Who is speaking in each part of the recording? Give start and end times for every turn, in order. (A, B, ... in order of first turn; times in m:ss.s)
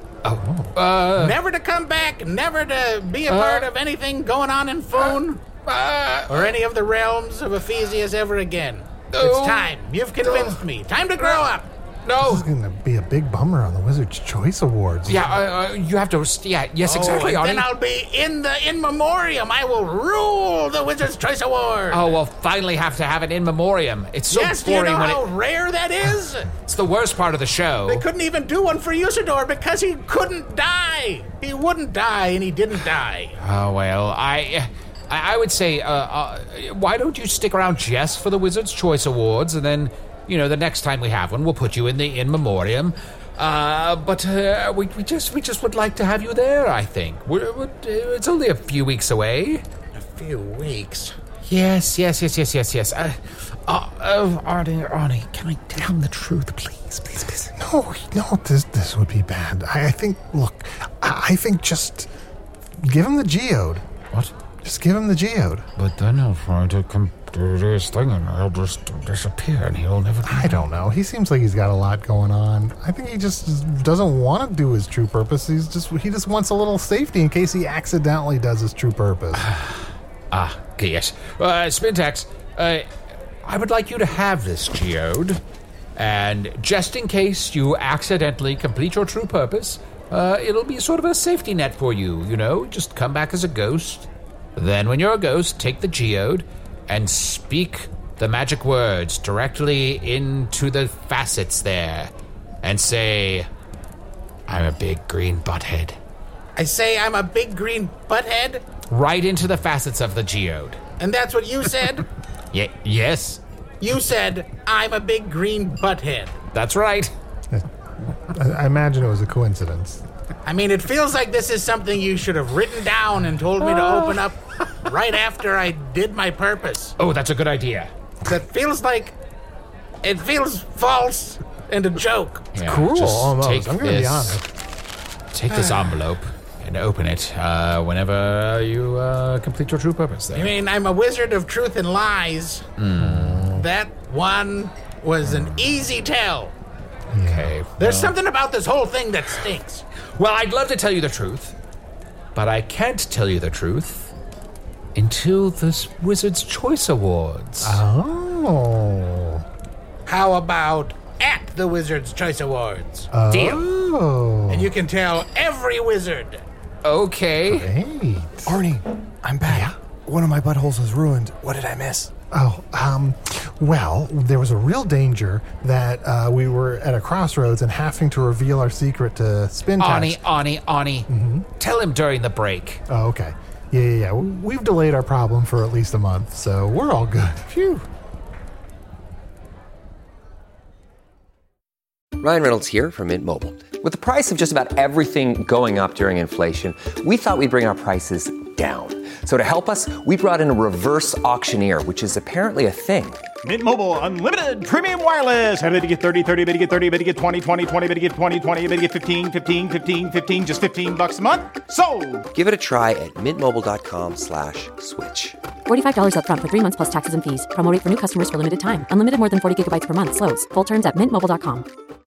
0:00.2-0:01.4 A
0:01.1-0:05.4 B
0:03.3-0:03.7 A
0:05.0-0:06.5 A
0:06.3-0:11.7 B
0:09.1-0:09.7 A
0:10.2-0:10.6 A
0:12.0-0:12.4 A
0:12.2-0:15.4 C
0:15.0-0:17.7 A
0:16.8-0:22.0 B
0:21.9-0:25.2 A
0:24.3-0:26.5 B
0:26.6-0:28.0 A
0:27.9-0:33.4 B
0:33.4-0:49.6 A
0:49.9-0:51.1 B
0:51.4-0:57.5 A
0:57.6-1:02.1 C
1:02.8-1:03.8 C
1:04.6-1:05.6 C
1:05.8-1:10.7 A
1:10.2-1:19.5 C
1:19.3-1:22.9 A
1:23.4-1:25.4 A
1:26.0-1:43.5 A
1:44.5-1:46.0 A
1:46.6-1:48.6 B
1:48.9-1:50.8 A
1:51.0-1:52.0 B
1:52.5-1:53.4 A
1:53.8-1:56.3 B
1:56.5-1:57.1 A
1:57.5-2:00.0 C
2:00.4-2:06.9 B
2:03.6-2:04.1 A
2:07.0-2:07.9 A
2:08.2-2:09.2 B
2:10.0-2:12.5 B
2:12.5-2:14.4 A
2:12.6-2:14.5 C
2:15.3-2:20.5 A
2:20.3-2:22.6 B
2:22.8-2:23.6 A
2:23.0-2:23.6 C
2:23.5-2:26.5 B
2:25.2-2:25.7 A
2:27.1-2:27.5 C
2:27.2-2:28.1 A
2:27.8-2:29.8 B
2:30.2-2:31.6 A
2:32.3-2:34.1 A
2:34.9-2:37.8 A
2:37.6-2:39.4 C
2:40.0-2:43.1 B
2:43.1-2:44.7 C
2:43.3-2:43.7 A
2:44.5-2:46.4 B
2:46.8-2:47.7 A
2:47.5-2:48.6 C
2:48.4-2:52.1 D
2:49.4-2:49.7 C
2:52.3-3:00.2 C
2:59.8-3:02.8 A
3:01.1-3:01.5 C
3:02.9-3:07.6 C
3:07.5-3:07.8 D
3:12.2-3:23.2 E
3:23.4-3:32.3 F
3:32.3-3:35.4 E
3:35.7-3:41.7 G